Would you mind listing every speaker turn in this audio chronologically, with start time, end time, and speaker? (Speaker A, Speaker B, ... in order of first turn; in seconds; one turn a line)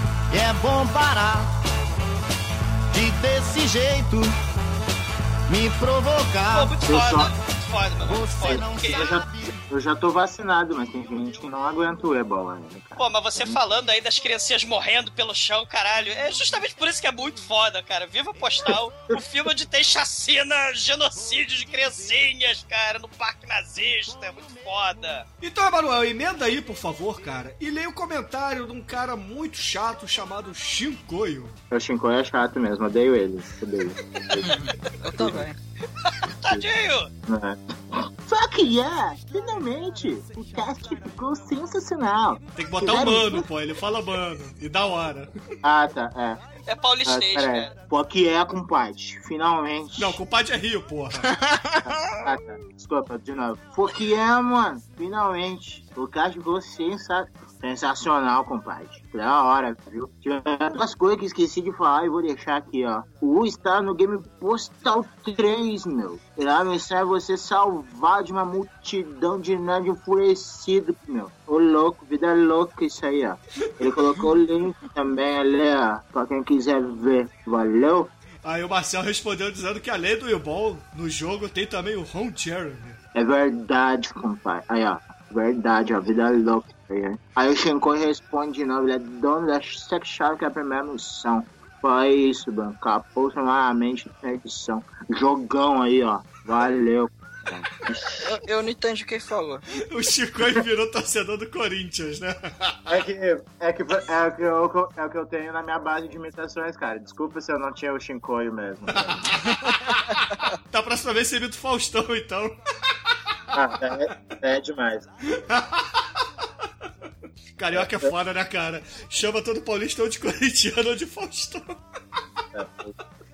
Speaker A: 0.3-1.5
Speaker A: 2.9-4.3
Speaker A: 5.5-6.8
Speaker B: 6.5-9.1
Speaker C: 6.8-7.3
Speaker A: 8.0-9.4
Speaker C: 8.5-13.6
Speaker B: 13.0-25.2
Speaker D: 25.4-31.5
Speaker C: 31.7-34.5
Speaker E: 34.4-35.6
Speaker B: 36.0-37.1
Speaker C: 37.3-43.5
Speaker D: 42.5-45.3
Speaker C: 45.6-46.4
Speaker B: 46.6-47.7
Speaker C: 47.0-50.2
Speaker D: 50.0-51.3
Speaker E: 51.3-52.1
Speaker C: 51.8-78.1
Speaker D: 78.4-83.0
Speaker C: 83.1-98.2
Speaker E: 98.2-99.6
Speaker D: 99.8-103.0
Speaker C: 102.9-109.3
Speaker D: 109.0-112.9
Speaker C: 113.5-115.1
Speaker D: 115.3-116.3
Speaker D: 117.5-121.8
Speaker C: 122.5-122.9